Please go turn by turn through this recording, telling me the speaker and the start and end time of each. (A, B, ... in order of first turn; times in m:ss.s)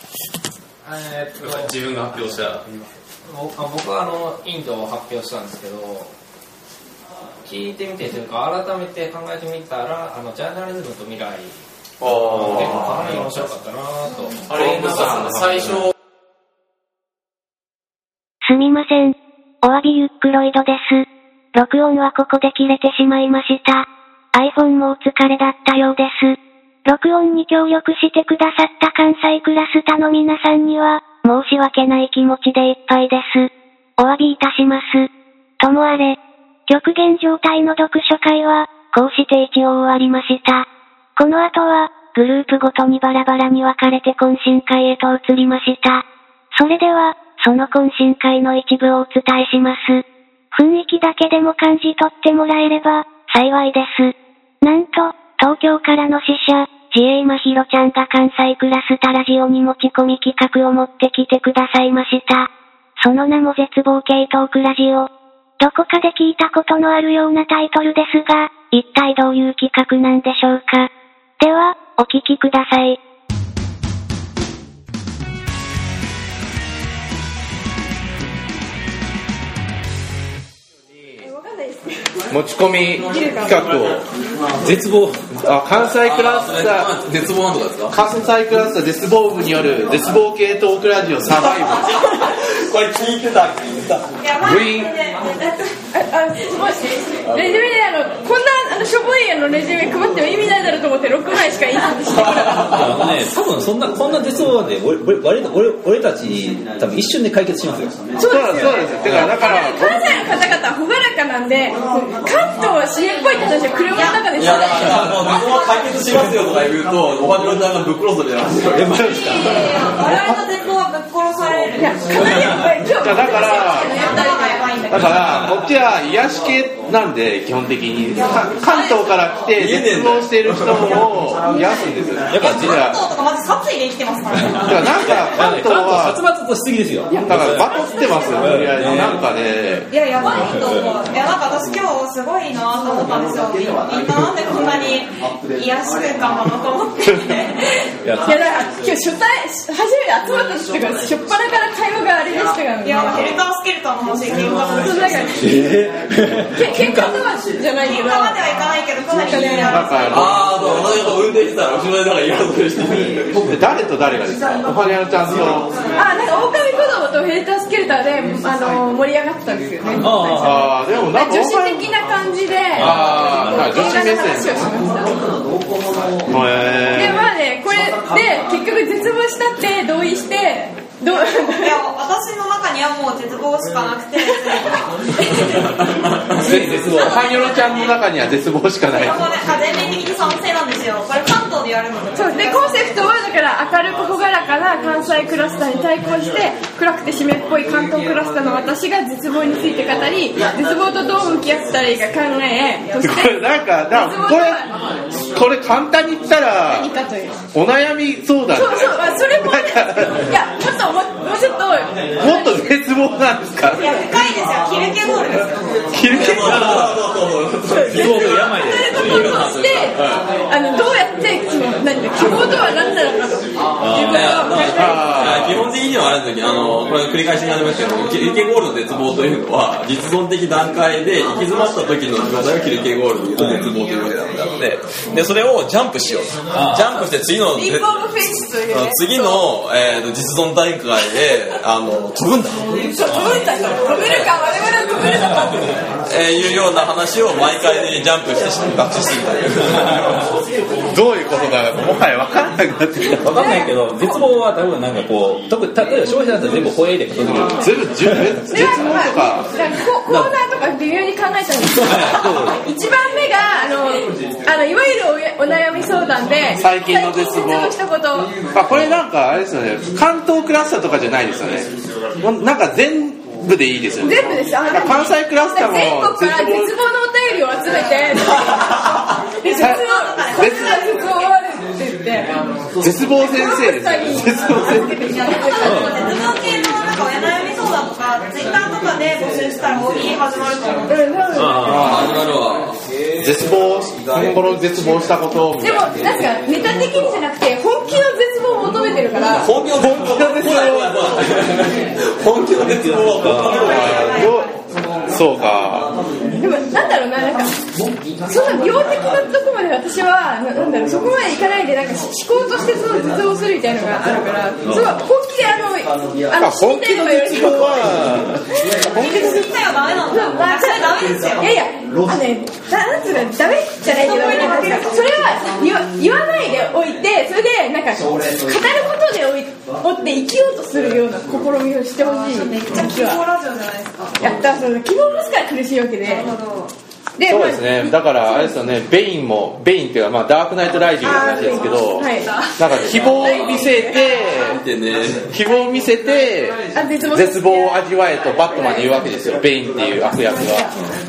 0:00.8-0:01.8 A
0:01.4-0:02.7 B
0:02.3-0:06.1 A
0:07.4-0:14.8 A
0:12.0-0:13.2 C
0:14.5-0:15.9 C
0:14.5-0:15.9 B
0:18.4-0:35.1 D
0:35.6-0:36.2 D
0:36.7-0:40.6 D
0:41.2-0:46.0 D
0:46.5-0:50.0 D
0:50.5-1:02.5 D
1:03.0-1:05.1 D
1:05.6-1:10.9 D
1:11.4-1:13.0 D
1:21.2-1:22.1 E
1:22.3-1:24.0 C
1:23.0-1:23.6 E
1:24.6-1:25.2 F
1:25.4-1:26.9 C
1:25.8-1:28.0 G
1:27.9-1:32.0 C
1:31.4-1:34.1 G
1:34.2-1:35.7 H
1:34.4-1:34.9 C
1:35.9-1:42.8 E
1:37.2-1:37.7 G
1:42.1-1:43.1 G
1:42.8-1:47.9 F
1:48.2-1:55.1 E
1:48.2-1:50.2 C
1:53.9-1:55.9 H
1:54.4-1:59.0 G
1:58.8-1:59.8 F
1:59.0-1:59.5 C
1:59.0-2:02.3 H
2:00.0-2:00.4 C
2:01.8-2:04.6 E
2:03.0-2:04.0 C
2:03.4-2:05.1 H
2:04.9-2:13.0 C
2:05.0-2:05.6 F
2:08.2-2:09.4 H
2:09.6-2:11.1 G
2:10.8-2:11.8 H
2:12.3-2:12.8 F
2:12.4-2:15.3 H
2:14.6-2:16.2 C
2:15.3-2:19.2 F
2:17.2-2:19.9 C
2:17.6-2:18.4 H
2:19.9-2:27.8 H
2:20.3-2:20.9 F
2:28.0-2:28.4 F
2:28.2-2:33.3 E
2:32.8-2:35.5 H
2:34.7-2:35.6 E
2:35.4-2:37.2 F
2:36.5-2:38.4 E
2:37.8-2:40.2 H
2:39.2-2:39.8 E
2:39.7-2:40.4 C
2:40.1-2:43.4 G
2:43.4-2:45.7 C
2:46.0-2:50.5 E
2:50.0-2:50.6 F
2:50.4-2:51.9 C
2:51.1-2:55.2 E
2:52.8-2:53.8 F
2:52.8-2:54.6 C
2:56.3-2:57.2 C
2:56.9-3:01.8 E
3:01.1-3:04.9 H
3:06.4-3:09.2 C
3:06.4-3:07.0 F
3:06.9-3:07.9 H
3:08.9-3:13.1 H
3:12.1-3:24.7 E
3:23.0-3:24.6 C
3:25.2-3:26.9 C
3:26.6-3:27.4 E
3:27.5-3:30.2 C
3:28.5-3:32.7 E
3:32.2-3:33.8 C
3:33.7-3:35.6 H
3:33.8-3:34.1 E
3:35.9-3:37.0 C
3:36.1-3:40.3 G
3:36.4-3:36.9 F
3:37.7-3:45.1 E
3:37.8-3:39.5 F
3:43.8-3:44.5 F
3:44.1-3:57.9 G
3:44.8-3:45.6 C
3:53.4-3:53.7 F
3:56.5-3:57.1 F
3:57.5-3:59.4 E
3:58.7-4:02.6 G
4:02.9-4:05.8 E
4:06.1-4:10.2 G
4:10.9-4:13.4 C
4:13.2-4:18.3 F
4:13.3-4:14.2 E
4:17.3-4:19.5 C
4:18.5-4:28.3 E
4:20.1-4:20.3 G
4:21.8-4:22.6 F
4:26.6-4:27.8 C
4:28.5-4:31.7 C
4:32.2-4:36.7 C
4:34.0-4:42.3 E
4:39.4-4:41.3 H
4:39.6-4:40.8 C
4:42.8-4:45.1 C
4:43.2-4:46.0 E
4:45.0-4:51.1 H
4:45.6-4:46.0 F
4:50.9-4:51.8 E
4:51.4-4:52.0 F
4:51.6-4:52.2 C
4:51.6-4:52.8 G
4:53.2-4:56.2 C
4:54.1-4:54.4 G
4:55.6-4:59.5 E
4:59.2-5:04.0 G
4:59.8-5:01.4 C
5:02.8-5:03.6 F
5:03.5-5:04.5 H
5:03.6-5:04.5 C
5:05.1-5:05.9 C
5:06.4-5:07.5 E
5:08.2-5:18.0 E
5:14.6-5:15.0 F
5:16.4-5:19.5 C
5:18.5-5:19.4 E
5:18.9-5:21.6 H
5:20.1-5:33.2 E
5:23.9-5:25.7 H
5:32.0-5:34.3 H
5:34.2-5:36.3 E
5:36.0-5:36.7 H
5:37.2-5:38.5 E
5:37.2-5:44.6 C
5:41.0-5:44.0 E
5:43.0-5:43.7 G
5:44.4-5:45.3 G
5:45.3-5:46.6 C
5:46.7-5:47.8 E
5:47.1-5:50.7 C
5:48.5-5:48.9 E
5:50.2-5:50.7 E